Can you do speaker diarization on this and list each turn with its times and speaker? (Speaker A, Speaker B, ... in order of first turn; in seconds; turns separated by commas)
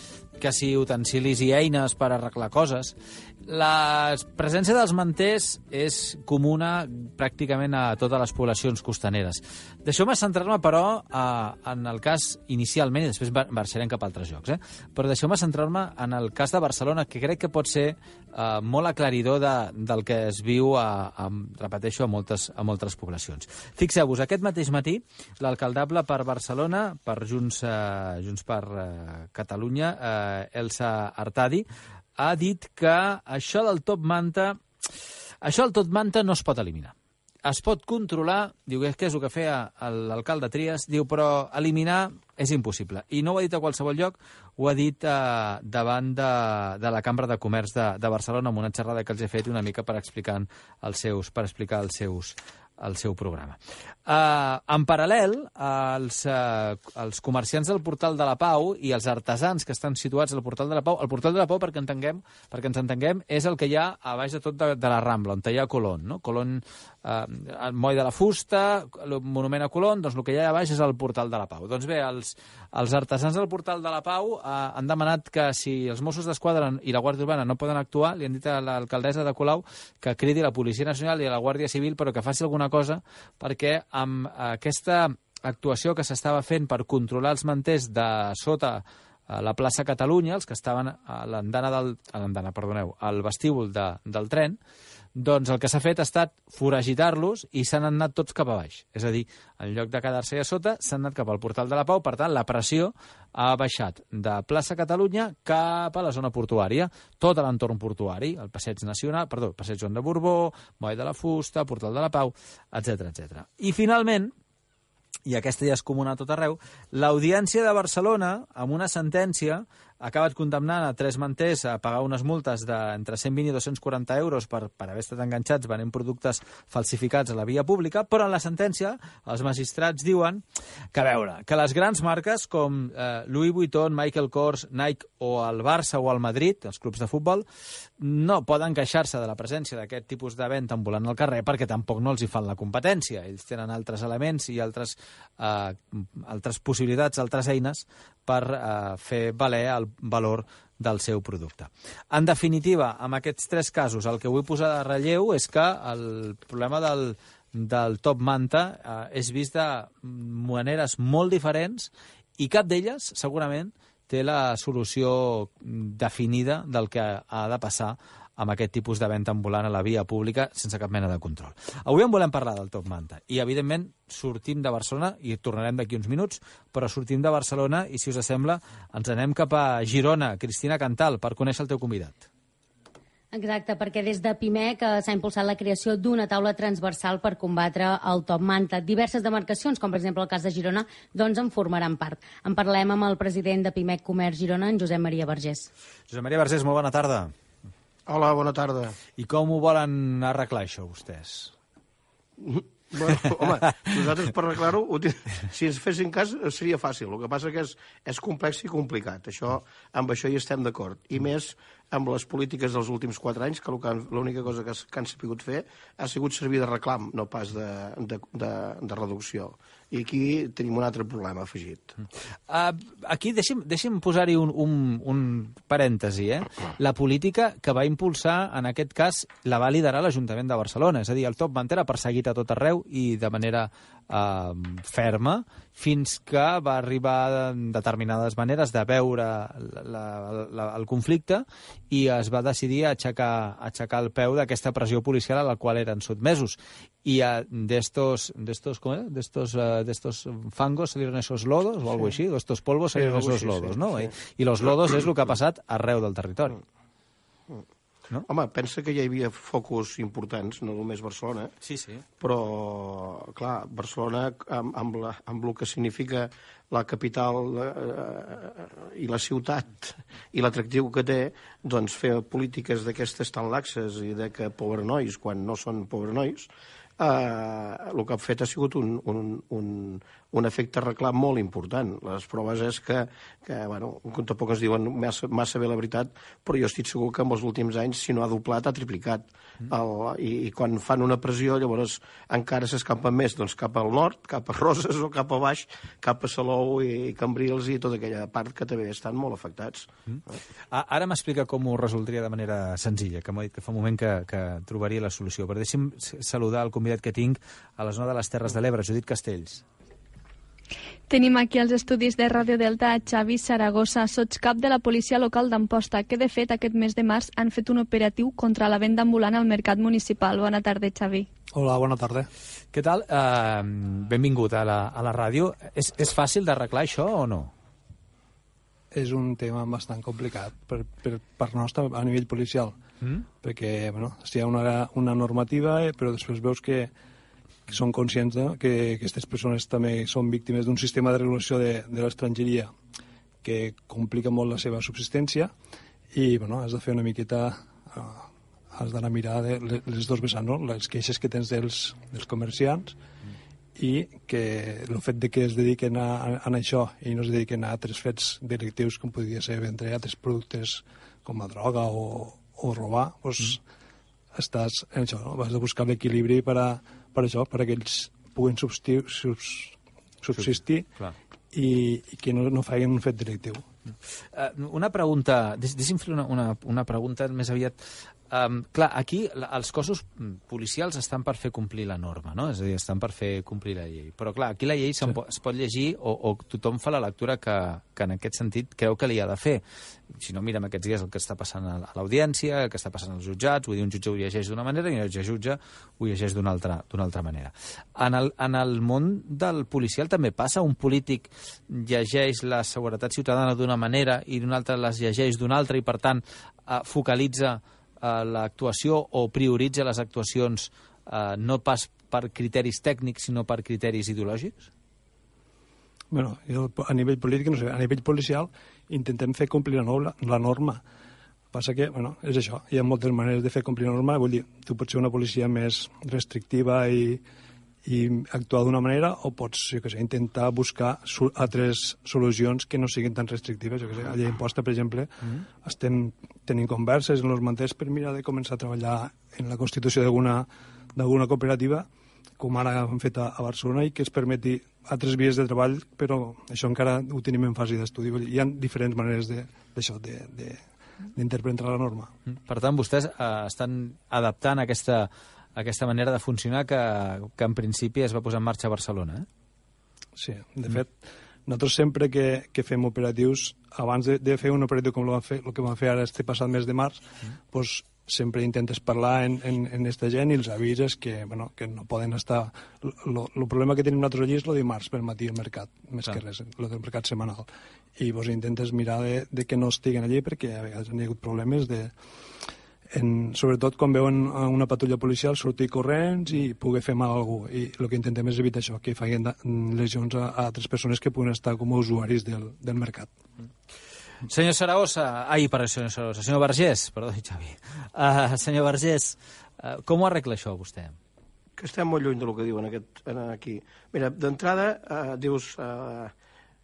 Speaker A: 0.4-3.0, Speaker A: 3.5-31.7, Speaker A: 32.2-34.6, Speaker A: 35.4-36.9, Speaker A: 37.5-94.6, Speaker A: 95.2-114.3, Speaker A: 115.3-130.4, Speaker A: 130.9-137.4, Speaker A: 138.0-182.2, Speaker B: 183.3-195.7, Speaker A: 196.1-197.3, Speaker C: 198.1-199.0, Speaker A: 199.2-201.5, Speaker C: 202.4-222.0, Speaker A: 222.5-256.6, Speaker C: 252.9-254.1, Speaker C: 258.2-261.5, Speaker A: 261.6-262.0, Speaker C: 262.2-299.9, Speaker A: 300.7-309.6, Speaker D: 311.1-321.3, Speaker E: 321.5-322.3, Speaker A: 322.7-327.5, Speaker E: 328.9-332.8, Speaker E: 333.4-336.9, Speaker E: 337.7-342.7, Speaker E: 343.4-345.5, Speaker E: 346.1-353.0, Speaker E: 353.8-363.6, Speaker E: 364.3-370.9, Speaker E: 371.5-373.6, Speaker A: 374.3-414.7, Speaker E: 416.1-420.8, Speaker E: 421.5-427.2, Speaker E: 427.8-441.9, Speaker E: 442.4-452.1, Speaker A: 452.4-459.2, Speaker E: 460.1-481.9, Speaker E: 482.9-493.1, Speaker A: 494.3-500.9, Speaker C: 501.6-506.1